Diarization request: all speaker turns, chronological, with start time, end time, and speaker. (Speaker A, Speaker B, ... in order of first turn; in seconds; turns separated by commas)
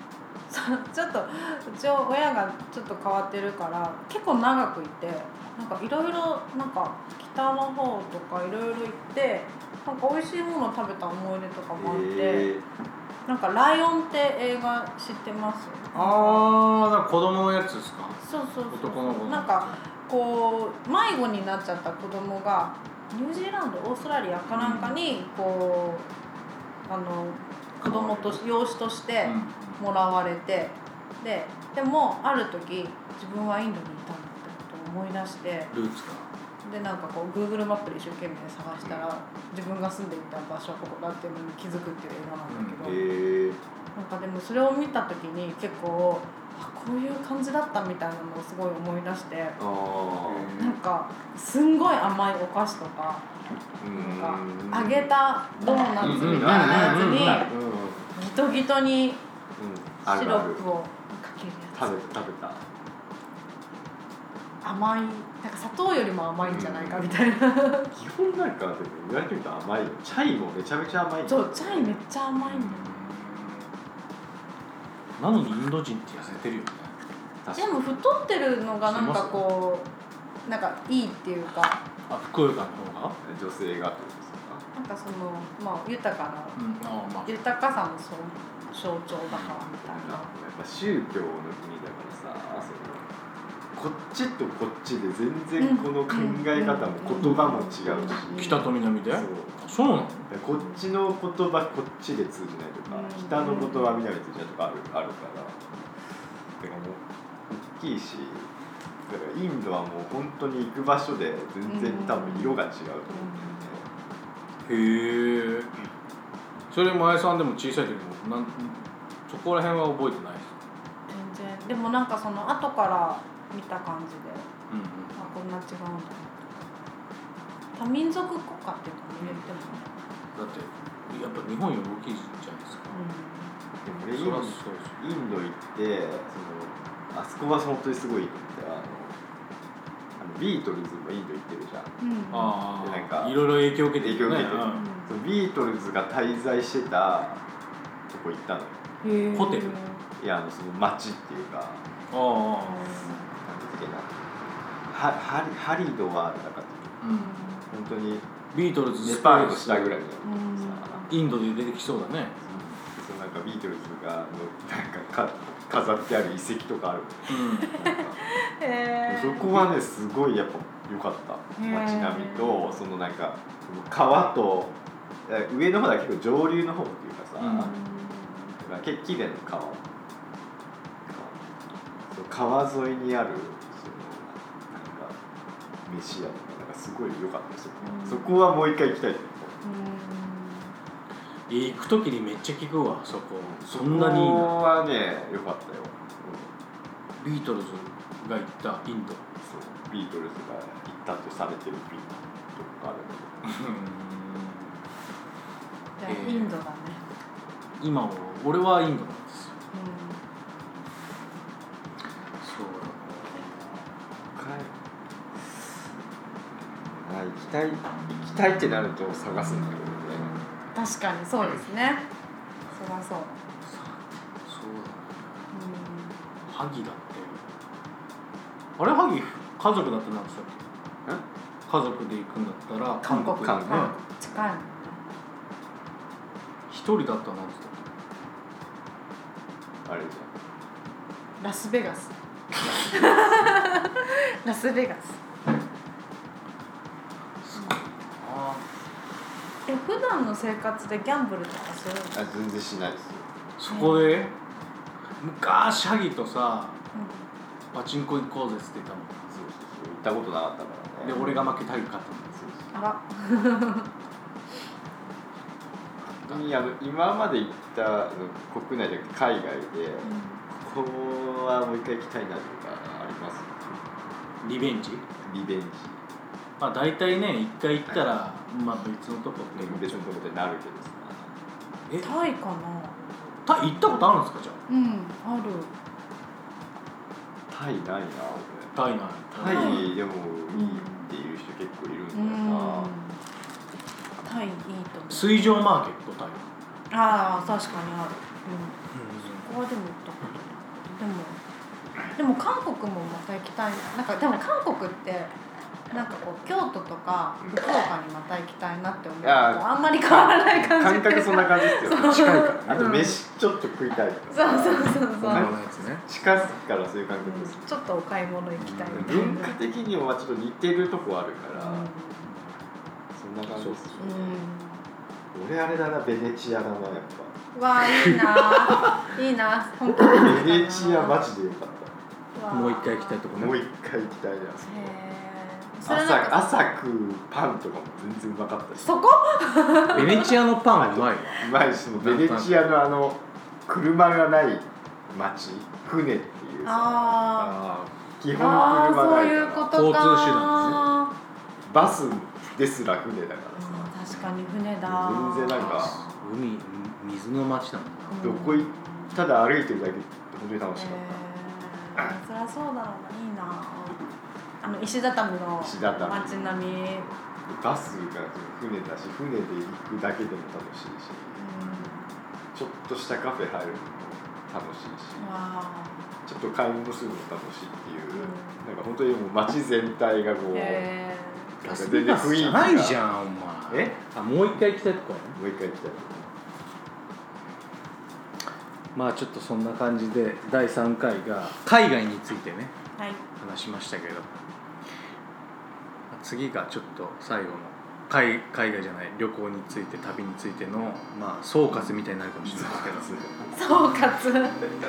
Speaker A: 0.5-12.5, Speaker B: 11.8-12.6, Speaker A: 13.2-16.5, Speaker C: 15.9-18.2, Speaker A: 18.2-26.1, Speaker C: 18.7-19.8, Speaker C: 24.5-24.9, Speaker A: 26.9-35.7, Speaker C: 27.8-28.4, Speaker C: 29.2-29.8, Speaker C: 35.7-36.3, Speaker A: 36.6-43.0, Speaker C: 42.5-42.9, Speaker B: 42.8-43.6, Speaker A: 43.9-49.6, Speaker B: 49.6-50.5, Speaker C: 50.2-50.8, Speaker A: 50.6-53.2, Speaker B: 53.8-58.1, Speaker A: 53.9-57.5, Speaker C: 56.0-57.5, Speaker A: 58.1-59.2, Speaker B: 59.6-60.6, Speaker A: 60.0-62.1, Speaker B: 61.7-62.6, Speaker A: 64.6-67.9, Speaker B: 66.4-67.2, Speaker B: 67.9-72.0, Speaker A: 71.3-73.0, Speaker C: 72.4-73.7, Speaker C: 75.2-76.9, Speaker B: 77.4-77.8, Speaker A: 77.5-79.9, Speaker C: 78.9-79.4, Speaker A: 80.4-81.8, Speaker C: 82.1-83.2, Speaker B: 83.2-84.6, Speaker A: 84.7-86.6, Speaker C: 86.5-87.4, Speaker A: 87.2-90.3, Speaker C: 89.3-89.8, Speaker B: 89.9-93.0, Speaker B: 93.7-99.6, Speaker A: 95.6-98.5, Speaker C: 98.3-100.3, Speaker B: 100.3-105.9, Speaker A: 102.9-104.0, Speaker B: 106.6-108.5, Speaker B: 109.1-113.9, Speaker A: 111.7-112.6, Speaker A: 113.1-113.6, Speaker C: 114.7-115.7, Speaker C: 116.7-120.5, Speaker A: 121.1-124.5, Speaker C: 124.7-125.3, Speaker A: 125.2-126.6, Speaker A: 127.7-129.9, Speaker C: 130.3-133.0, Speaker A: 132.9-133.5, Speaker B: 133.8-139.2, Speaker C: 134.2-134.9, Speaker B: 140.2-141.9, Speaker A: 142.0-142.6, Speaker C: 142.3-144.8, Speaker B: 142.8-143.4, Speaker B: 144.0-147.4, Speaker A: 144.7-145.1, Speaker B: 148.1-148.8, Speaker A: 149.0-150.0, Speaker C: 149.3-149.8, Speaker B: 150.2-151.8, Speaker C: 152.1-152.8, Speaker A: 152.6-153.2, Speaker B: 153.3-157.0, Speaker C: 157.0-157.3, Speaker A: 157.1-157.7, Speaker B: 157.7-158.3, Speaker C: 158.5-160.0, Speaker B: 159.0-161.0, Speaker A: 160.2-161.1, Speaker C: 161.1-162.4, Speaker B: 162.5-168.2, Speaker C: 167.3-167.8, Speaker A: 167.7-169.6, Speaker B: 169.1-174.8, Speaker A: 171.6-172.8, Speaker B: 175.3-177.7, Speaker C: 177.4-177.7, Speaker A: 177.6-178.6, Speaker B: 178.6-179.8, Speaker B: 181.1-181.4, Speaker B: 182.1-185.2, Speaker B: 185.8-189.6, Speaker A: 187.8-188.3, Speaker A: 189.6-190.7, Speaker C: 191.5-194.6, Speaker B: 193.5-196.5, Speaker C: 197.2-199.2, Speaker B: 199.4-203.4, Speaker C: 203.4-204.8, Speaker A: 206.0-207.0, Speaker C: 206.1-206.5, Speaker C: 207.8-209.6, Speaker A: 209.7-210.2, Speaker C: 212.4-213.8, Speaker B: 214.3-214.7, Speaker B: 215.4-215.7, Speaker B: 216.8-220.4, Speaker A: 220.7-222.0, Speaker A: 222.7-223.4, Speaker C: 223.6-225.4, Speaker A: 225.5-226.2, Speaker C: 226.5-227.4, Speaker C: 228.8-230.6, Speaker C: 231.7-233.9, Speaker A: 233.0-235.1, Speaker B: 233.1-233.9, Speaker C: 236.7-237.9, Speaker B: 239.8-240.3, Speaker A: 241.4-242.1, Speaker A: 242.6-245.2, Speaker C: 247.4-248.7, Speaker A: 249.7-252.2, Speaker B: 252.1-253.2, Speaker C: 253.6-254.3, Speaker A: 253.7-254.3, Speaker C: 255.2-256.8, Speaker A: 256.9-257.2, Speaker C: 257.7-259.3, Speaker B: 259.3-261.3, Speaker C: 261.0-262.4, Speaker A: 261.1-261.5, Speaker A: 262.7-263.9, Speaker C: 266.1-266.6, Speaker B: 266.2-273.8, Speaker A: 270.0-270.4, Speaker C: 274.4-275.0, Speaker B: 275.2-276.0, Speaker C: 276.6-280.2, Speaker B: 279.5-281.3, Speaker A: 282.0-283.0, Speaker C: 283.4-284.6, Speaker A: 284.7-285.7, Speaker B: 287.5-288.7, Speaker C: 288.7-289.9, Speaker B: 289.3-292.9, Speaker A: 289.4-289.9, Speaker A: 290.5-291.1, Speaker A: 292.1-293.2, Speaker A: 294.2-295.6, Speaker C: 295.1-296.5, Speaker A: 296.9-298.8, Speaker C: 298.9-299.5, Speaker A: 299.3-301.4, Speaker A: 302.1-305.3, Speaker A: 305.9-313.2, Speaker B: 309.2-317.6, Speaker C: 311.9-312.9, Speaker A: 314.3-315.5, Speaker C: 314.7-316.0, Speaker A: 317.2-319.5, Speaker C: 318.6-319.3, Speaker B: 318.9-321.9, Speaker A: 321.6-322.3, Speaker B: 323.1-324.4, Speaker A: 324.0-324.8, Speaker B: 325.3-327.3, Speaker A: 327.5-331.2, Speaker C: 328.0-328.9, Speaker B: 329.8-331.9, Speaker A: 332.3-333.2, Speaker C: 332.5-333.6, Speaker B: 333.3-334.9, Speaker A: 334.6-336.5, Speaker B: 335.8-338.9, Speaker A: 338.8-340.3, Speaker C: 339.9-342.5, Speaker B: 339.9-347.3, Speaker A: 346.6-347.6, Speaker C: 347.4-347.9, Speaker B: 348.2-349.8, Speaker A: 348.3-351.1, Speaker C: 349.7-350.9, Speaker B: 350.4-350.8, Speaker B: 351.6-354.1, Speaker A: 353.6-356.1, Speaker B: 354.8-356.0, Speaker C: 355.5-358.2, Speaker A: 358.1-359.1, Speaker B: 358.2-361.2, Speaker A: 360.7-364.0, Speaker A: 364.6-367.1, Speaker B: 365.6-366.6, Speaker B: 367.4-371.4, Speaker A: 371.3-372.1, Speaker B: 372.5-375.3, Speaker A: 375.2-376.1, Speaker B: 376.2-380.8, Speaker A: 378.1-378.6, Speaker A: 380.5-381.5, Speaker C: 381.6-385.4, Speaker B: 381.6-383.0, Speaker B: 383.7-383.9, Speaker B: 385.4-386.3, Speaker C: 388.9-392.7, Speaker A: 393.0-393.2, Speaker C: 393.4-394.4, Speaker C: 396.1-403.1, Speaker B: 402.5-403.3, Speaker A: 403.5-404.7